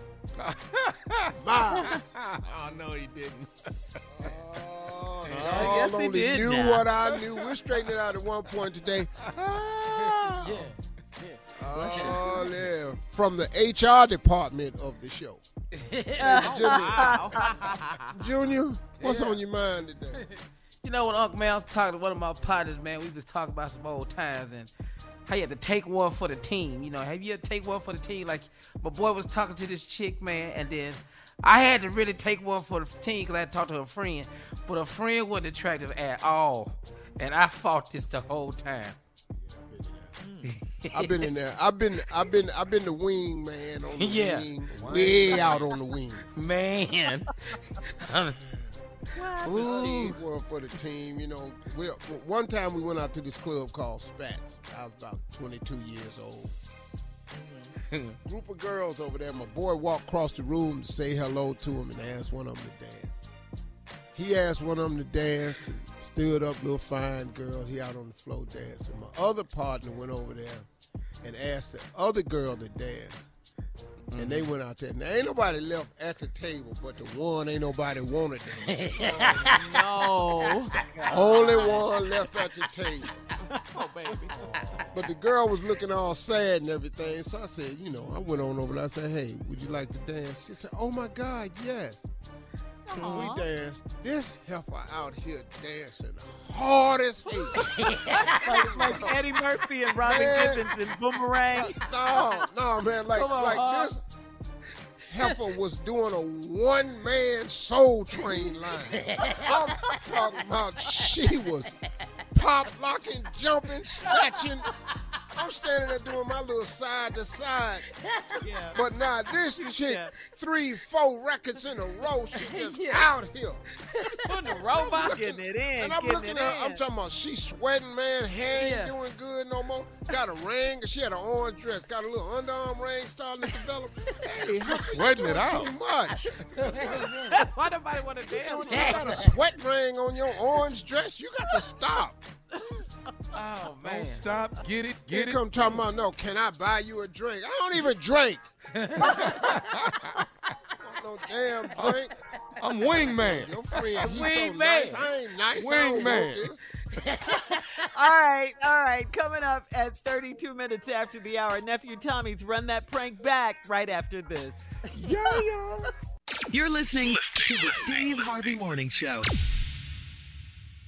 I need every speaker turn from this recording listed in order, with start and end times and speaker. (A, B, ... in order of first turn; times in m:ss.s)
0:00.4-0:03.5 A
0:01.4-0:02.0 B
0:04.2-0:10.3 B
0:05.3-0:05.7 A
0:05.6-0:06.8 C
0:10.2-0:10.6 A
0:10.4-0:12.2 D
0:11.6-0:15.4 B
0:15.8-0:17.1 D
0:16.2-0:17.6 B
0:16.2-0:17.3 C
0:18.1-0:20.3 B
0:19.0-0:19.4 D
0:20.8-0:24.7 D
0:25.2-0:39.0 D
0:39.4-0:40.1 B
0:40.4-0:41.2 D
0:40.9-0:46.3 B
0:43.9-0:44.5 D
0:44.8-0:45.6 A
0:46.3-0:48.4 D
0:49.3-0:50.2 D
0:49.7-0:56.5 B
0:58.2-1:03.2 B
1:04.2-1:10.7 B
1:11.2-1:13.3 B
1:14.1-1:19.5 B
1:14.2-1:14.4 D
1:19.0-1:19.5 D
1:19.6-1:21.4 C
1:21.1-1:23.1 B
1:23.5-1:24.4 C
1:24.9-1:32.1 B
1:32.9-1:33.4 C
1:33.0-1:37.9 B
1:37.8-1:38.4 D
1:38.5-1:41.8 C
1:38.5-1:39.2 B
1:40.0-1:40.6 B
1:41.5-1:44.0 B
1:43.2-1:43.9 D
1:45.1-1:51.8 B
1:52.3-1:54.7 B
1:55.3-1:57.8 B
1:58.4-1:58.7 C
1:58.7-2:03.6 B
1:59.6-2:00.1 C
2:02.7-2:03.1 D
2:04.3-2:06.8 C
2:04.7-2:16.3 B
2:08.5-2:08.9 D
2:14.7-2:15.8 A
2:16.6-2:19.3 D
2:18.3-2:22.2 B
2:23.3-2:24.3 D
2:23.8-2:25.6 A
2:25.1-2:28.4 B
2:28.8-2:29.2 D
2:29.2-2:30.2 A
2:30.8-2:32.1 B
2:32.6-2:34.2 A
2:33.0-2:36.6 B
2:34.2-2:35.0 D
2:35.5-2:36.5 A
2:37.9-2:44.6 C
2:45.0-2:45.8 A
2:46.5-2:49.3 E